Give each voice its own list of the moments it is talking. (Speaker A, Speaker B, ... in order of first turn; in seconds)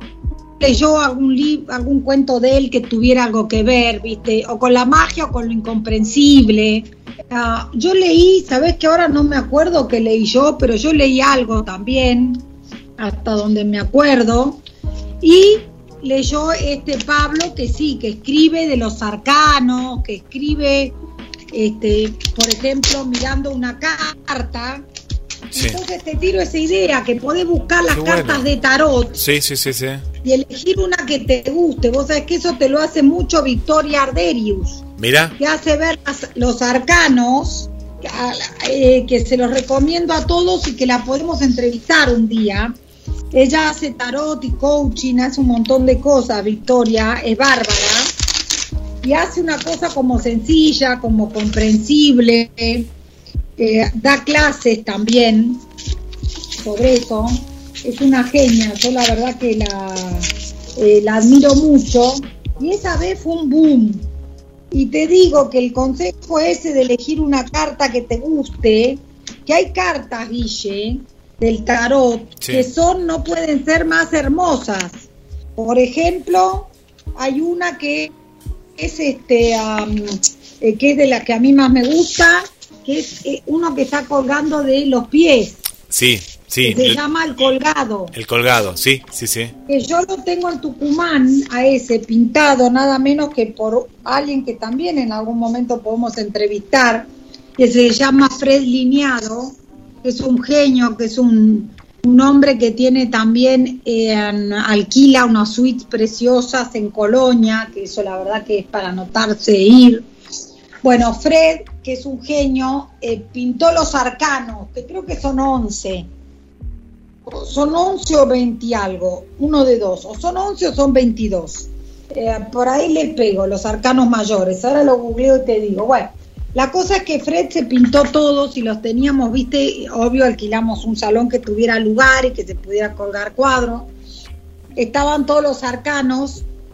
Speaker A: 0.6-12.4, 13.0-14.6, 15.2-20.9, 21.5-24.8, 25.5-29.2, 30.2-34.8, 35.4-42.7, 43.3-48.1, 49.0-52.9, 53.6-55.6, 56.6-64.0, 64.7-78.1, 78.8-85.6, 86.6-88.1, 89.7-110.0, 110.8-116.1, 117.3-133.9, 134.8-136.4
Speaker B: 27.9-28.4, 29.2-30.0, 35.0-35.3, 72.4-72.7, 85.9-87.0, 88.1-89.5